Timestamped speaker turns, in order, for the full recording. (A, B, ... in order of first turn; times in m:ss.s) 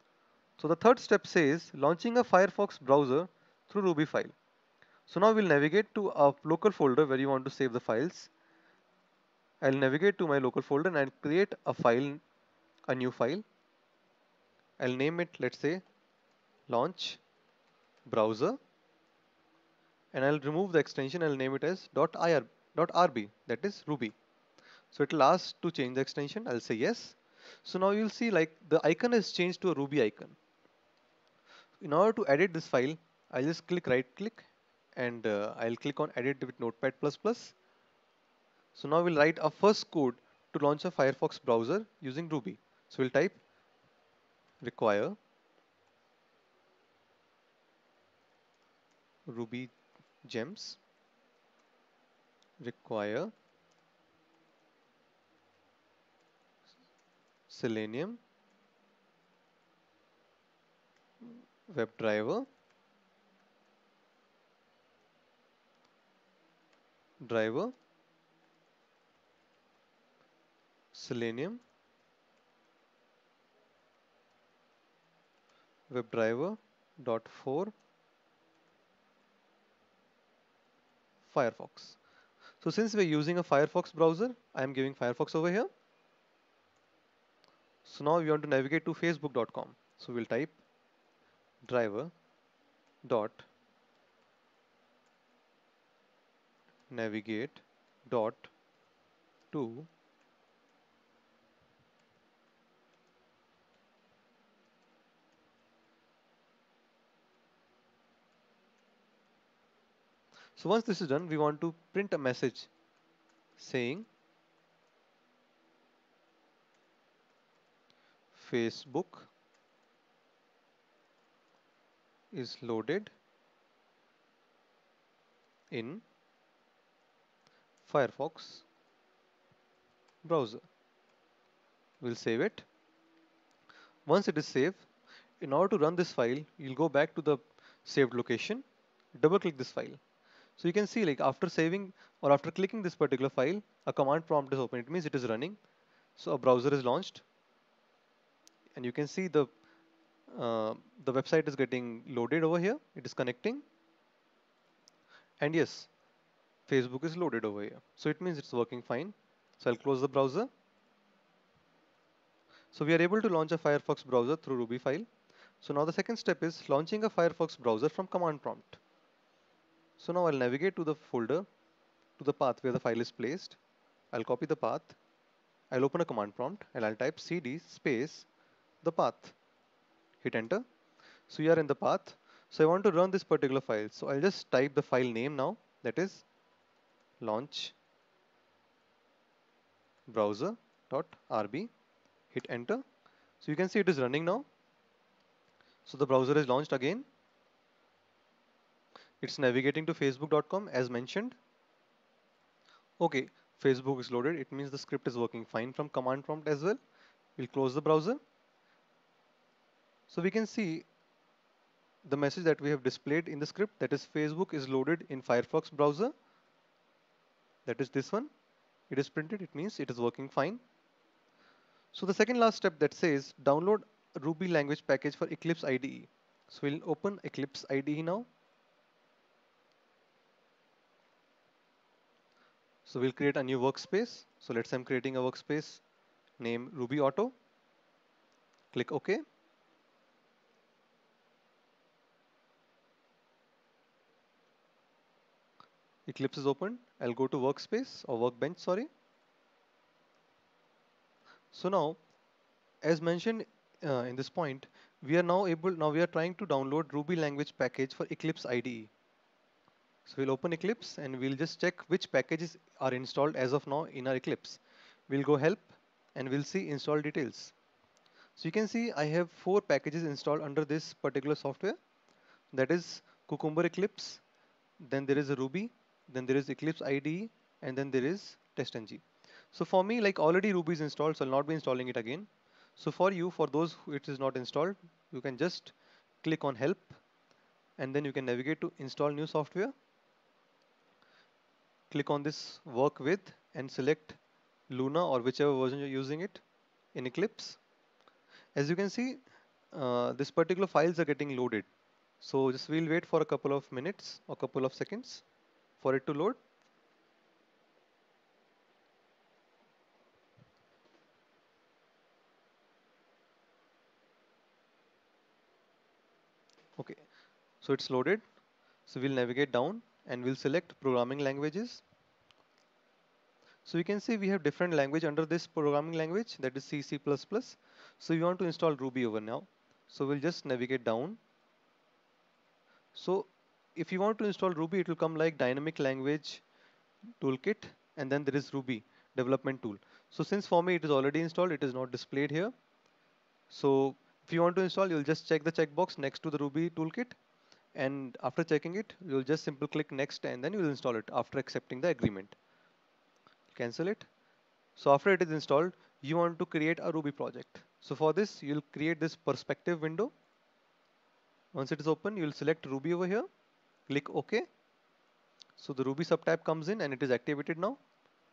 0:00.6-0:04.3 A
0:05.1-0:08.3 A
0:09.6-0:12.2 A
0:12.9-0:13.4 A
0:14.8-0:15.8 A
0:16.7-0:17.2 A
0:18.1-0:18.6 A
0:20.1-0:24.1 A
0:24.9-0:30.4 A
0:31.8-0:34.4 A
0:35.0-0:37.5 A
0:38.7-0:43.4 A
0:44.6-0:45.2 A
0:49.3-0:49.7 A
0:50.2-0:50.8 A
0:52.6-0:53.3 A
0:57.5-0:58.2 A
1:01.7-1:02.5 A
1:07.2-1:07.7 A
1:10.9-1:11.6 A
1:15.9-1:17.7 A
1:21.2-1:22.0 A
1:22.6-1:25.7 A
1:27.8-1:30.6 A
1:31.6-1:32.1 A
1:33.0-1:33.5 A
1:36.9-1:38.5 A
1:39.5-1:39.9 A
1:50.6-1:52.7 A
1:53.6-1:54.1 A
1:58.3-1:59.3 A
2:02.3-2:03.1 A
2:05.7-2:06.0 A
2:07.8-2:08.6 A
2:10.2-2:10.6 A
2:12.0-2:12.7 A
2:14.1-2:14.8 A
2:15.4-2:18.6 A
2:19.2-2:20.0 A
2:20.6-2:25.6 A
2:26.2-2:27.2 A
2:28.8-2:29.5 A
2:30.3-2:33.6 A
2:35.4-2:35.9 A
2:36.7-2:40.5 A
2:42.7-2:45.1 A
2:45.6-2:48.8 A
2:50.0-2:51.4 A
2:52.2-2:53.6 A
2:54.1-2:55.0 A
2:55.7-2:58.3 A
2:58.8-2:59.3 A
3:00.2-3:00.6 A
3:01.3-3:06.2 A
3:07.2-3:07.7 A
3:10.1-3:11.7 A
3:12.3-3:12.8 A
3:13.4-3:14.4 A
3:15.8-3:17.0 A
3:19.2-3:21.4 A
3:23.0-3:26.8 A
3:27.4-3:28.2 A
3:30.1-3:30.8 A
3:32.0-3:36.1 A
3:37.6-3:38.3 A
3:38.9-3:40.6 A
3:41.9-3:48.3 A
3:52.8-3:55.8 A
3:56.4-3:57.3 A
3:58.7-3:59.2 A
4:06.1-4:08.9 A
4:11.5-4:12.0 A
4:12.8-4:18.9 A
4:20.0-4:27.5 A
4:28.4-4:31.8 A
4:32.5-4:34.2 A
4:34.8-4:47.0 A
4:47.8-4:49.7 A
4:51.9-4:54.2 A
4:54.7-4:56.4 A
4:56.9-4:57.6 A
4:58.6-4:59.2 A
4:59.7-5:01.7 A
5:02.2-5:05.2 A
5:05.8-5:06.4 A
5:16.8-5:17.0 A
5:17.6-5:18.2 A
5:18.9-5:21.8 A
5:23.6-5:31.2 A
5:32.9-5:36.4 A
5:37.2-5:42.5 A
5:43.5-5:47.2 A
5:47.7-5:52.4 A
5:53.5-5:54.1 A
5:54.8-6:00.1 A
6:01.5-6:03.3 A
6:03.9-6:04.4 A
6:05.6-6:07.8 A